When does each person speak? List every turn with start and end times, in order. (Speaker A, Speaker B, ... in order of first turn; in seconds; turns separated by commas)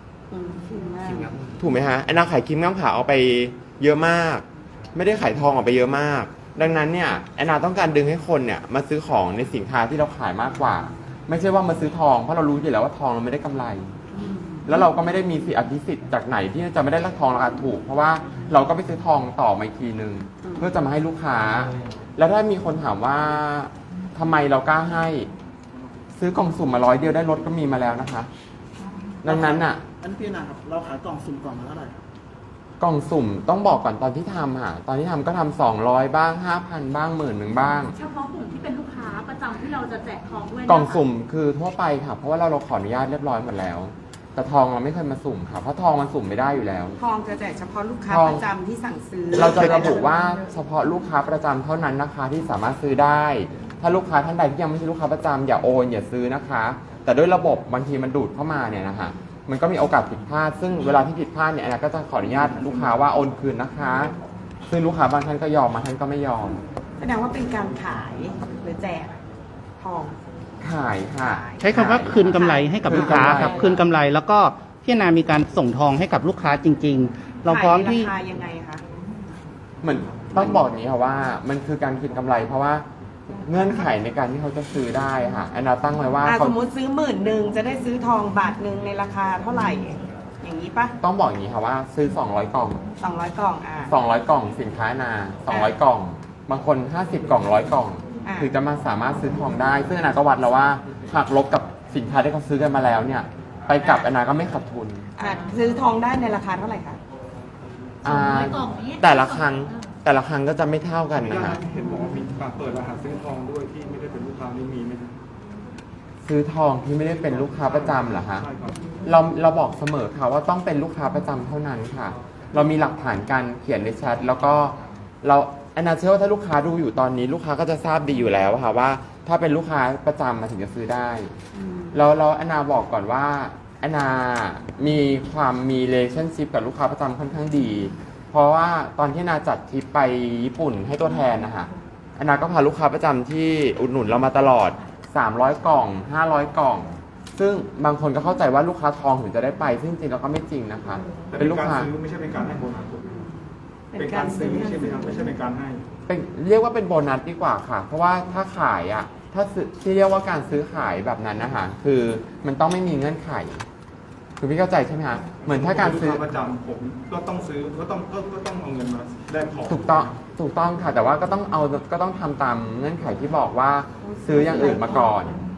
Speaker A: 0.3-1.3, Speaker B: 1.0-1.4, Speaker C: 1.6-13.9, Speaker A: 14.1-14.8, Speaker C: 14.7-25.3, Speaker A: 20.4-20.7, Speaker C: 26.2-28.3, Speaker C: 29.2-29.8, Speaker B: 29.3-32.0, Speaker C: 32.8-38.0, Speaker D: 38.0-41.0, Speaker C: 40.7-47.0, Speaker A: 47.0-50.2, Speaker C: 48.1-48.4, Speaker C: 49.3-64.1, Speaker C: 64.7-66.6, Speaker A: 67.0-69.2, Speaker A: 69.8-70.2, Speaker C: 70.6-73.8, Speaker A: 71.2-73.8, Speaker E: 71.6-78.1, Speaker A: 77.5-78.8, Speaker C: 79.8-82.9, Speaker C: 83.4-86.5, Speaker A: 86.2-91.0, Speaker C: 91.0-92.8, Speaker A: 93.0-94.0, Speaker C: 93.9-105.1, Speaker A: 95.5-95.7, Speaker A: 98.2-98.5, Speaker A: 103.8-104.1, Speaker A: 105.2-107.0, Speaker D: 108.0-109.9, Speaker C: 108.0-111.6, Speaker F: 111.2-115.2, Speaker C: 116.3-118.5, Speaker F: 117.4-118.8, Speaker C: 119.0-131.3, Speaker A: 131.6-131.9, Speaker C: 131.9-151.9, Speaker F: 151.3-153.3, Speaker A: 153.9-155.3, Speaker F: 153.9-155.8, Speaker C: 156.1-163.6, Speaker C: 164.4-166.2, Speaker F: 165.4-170.2, Speaker C: 169.7-175.3, Speaker B: 174.0-175.2